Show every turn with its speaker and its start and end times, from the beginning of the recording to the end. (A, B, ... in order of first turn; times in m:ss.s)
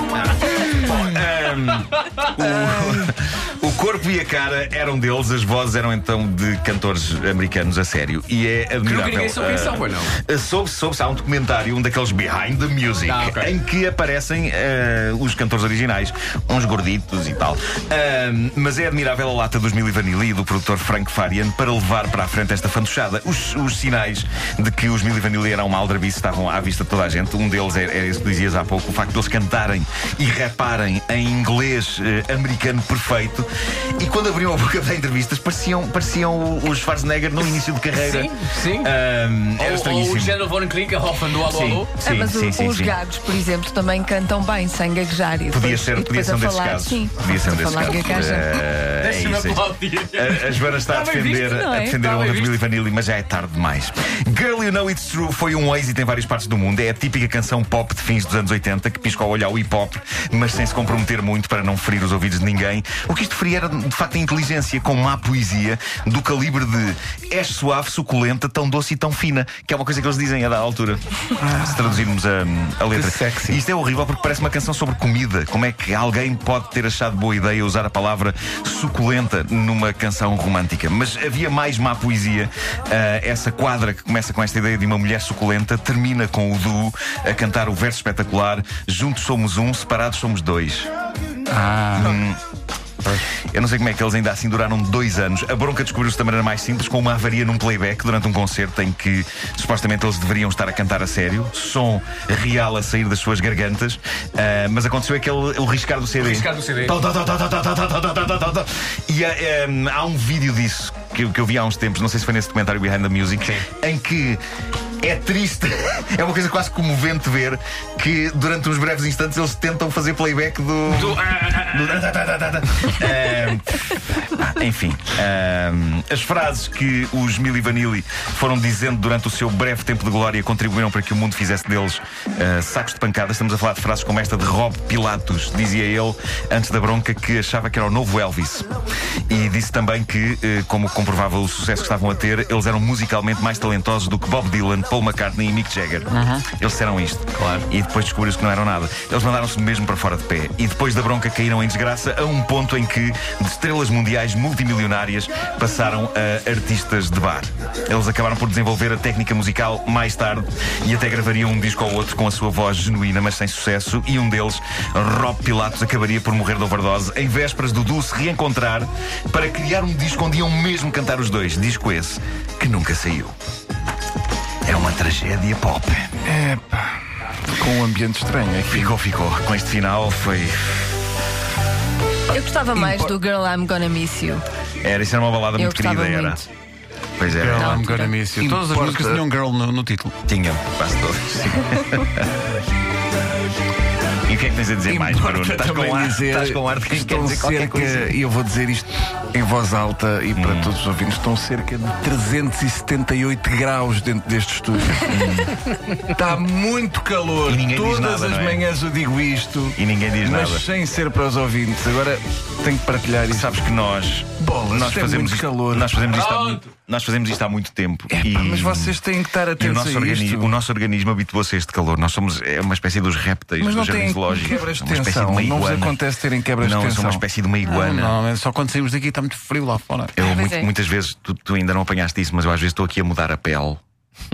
0:00.3-0:40.4 A
0:08.8-0:10.2 B
0:13.0-0:13.5 B
0:37.9-0:39.0 B
0:39.6-0:41.9 B
0:41.4-0:43.0 A
0:42.0-0:48.6 C
0:45.5-1:30.9 A
0:49.0-0:51.4 B
0:51.2-0:52.0 C
0:52.0-0:52.6 B
1:11.5-1:11.8 D
1:12.9-1:13.6 D
1:31.5-1:32.2 D
1:32.0-1:32.4 A
1:33.0-1:54.4 A
1:46.2-1:47.0 B
1:53.4-1:53.6 B
1:55.0-2:03.8 A
2:00.9-2:02.1 B
2:04.3-2:18.7 A
2:19.3-2:53.4 A
2:26.1-2:26.4 B
2:27.4-2:27.7 B
2:54.6-2:56.2 A
2:56.2-2:57.0 D
2:57.6-2:58.9 D
2:58.7-3:01.0 A
3:02.3-3:04.4 C
3:02.7-3:03.1 D
3:04.8-3:06.4 A
3:05.6-3:06.4 C
3:07.2-3:07.9 A
3:07.3-3:10.2 E
3:07.5-3:08.1 C
3:08.4-3:09.3 D
3:10.3-3:12.3 A
3:14.2-3:18.1 A
3:14.9-3:25.2 D
3:20.3-3:20.7 A
3:25.1-3:25.6 A
3:26.0-3:33.5 D
3:27.5-3:28.6 A
3:29.8-3:30.6 A
3:33.3-3:39.0 A
3:34.4-3:36.0 D
3:36.1-3:36.7 B
3:38.1-3:40.5 D
3:39.6-3:46.0 A
3:43.6-3:47.2 D
3:46.6-3:48.2 A
3:47.6-3:50.1 E
3:50.2-3:53.8 A
3:50.2-3:50.7 C